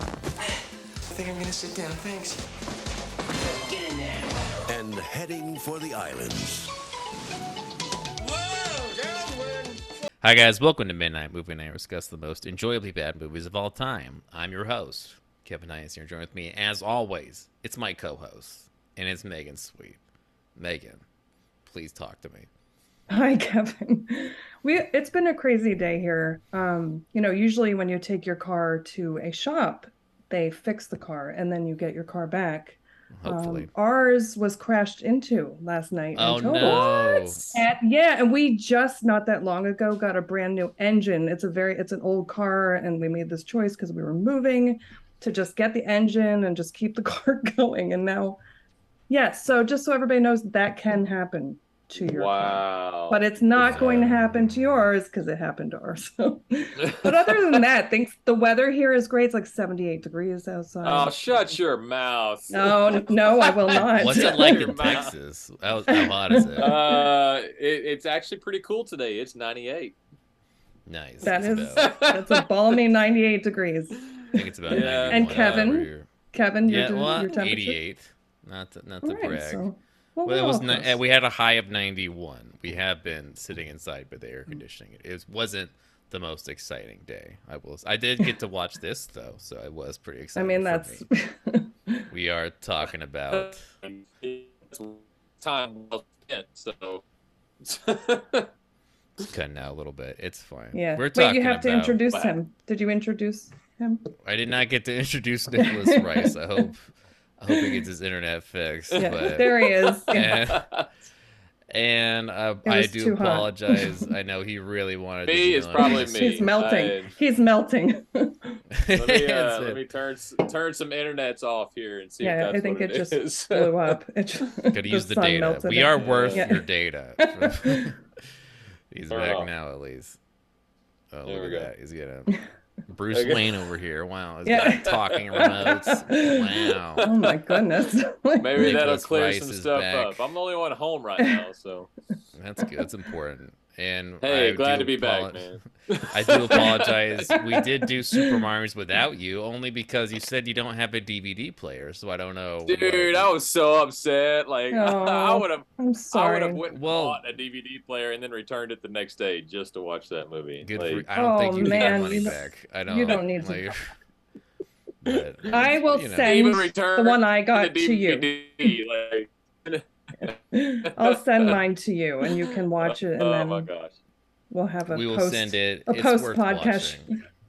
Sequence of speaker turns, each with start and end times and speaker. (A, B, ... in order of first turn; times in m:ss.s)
0:01.1-0:02.4 A
0:03.5-0:04.6 A
0:04.7-0:06.7 B
0:08.2-0:09.8 A
0:10.2-0:20.0 C
0:20.6-0:21.0 C
0:21.6-0:22.5 C
0:23.1-0:48.4 D
0:33.1-0:33.7 C
0:36.1-0:37.6 C
0:36.6-0:36.9 E
0:49.1-1:01.2 D
0:52.0-0:53.2 E
0:53.6-0:54.8 C
0:56.8-0:57.6 E
1:00.8-1:05.1 E
1:02.5-1:04.9 D
1:03.8-1:06.8 C
1:05.9-1:07.1 D
1:06.6-1:09.9 E
1:10.9-1:11.9 C
1:11.2-1:14.0 D
1:11.8-1:12.8 E
1:14.2-1:15.7 E
1:14.3-1:16.1 C
1:14.7-1:17.8 D
1:16.6-1:19.7 C
1:19.0-1:21.0 D
1:20.2-1:31.0 C
1:30.4-1:32.1 D
1:32.1-1:33.6 C
1:33.3-1:37.0 E
1:37.6-1:38.5 E
1:39.2-1:42.0 C
1:40.7-1:44.1 D
1:42.1-1:42.4 E
1:44.2-1:49.5 C
1:45.6-1:46.3 D
1:48.9-1:50.9 E
1:48.9-1:50.3 D
1:50.1-1:50.7 C
1:51.7-1:56.5 C
1:52.6-1:54.0 D
1:55.2-1:57.1 E
1:55.8-1:58.6 D
1:58.7-1:59.8 C
1:58.9-2:04.0 E
2:02.2-2:06.6 D
2:04.7-2:08.0 C
2:06.0-2:06.4 E
2:07.2-2:07.9 D
2:08.9-2:10.2 C
2:09.1-2:09.5 E
2:11.1-2:12.3 C
2:11.2-2:11.7 E
2:12.9-2:17.1 C
2:13.1-2:13.6 E
2:14.4-2:16.4 D
2:14.8-2:15.6 E
2:17.0-2:17.6 E
2:17.0-2:18.7 D
2:18.4-2:21.9 E
2:18.5-2:20.2 C
2:22.3-2:25.5 C
2:24.2-2:27.6 E
2:26.1-2:33.3 C
2:32.6-2:41.0 E
2:34.7-2:36.6 D
2:36.7-2:37.2 C
2:40.6-2:43.8 C
2:41.1-2:43.7 D
2:41.6-2:42.4 E
2:45.0-2:46.6 C
2:45.5-2:48.7 D
2:46.2-2:51.5 E
2:50.5-2:53.7 D
2:52.2-2:54.0 E
2:54.5-2:57.2 D
2:54.9-2:57.1 C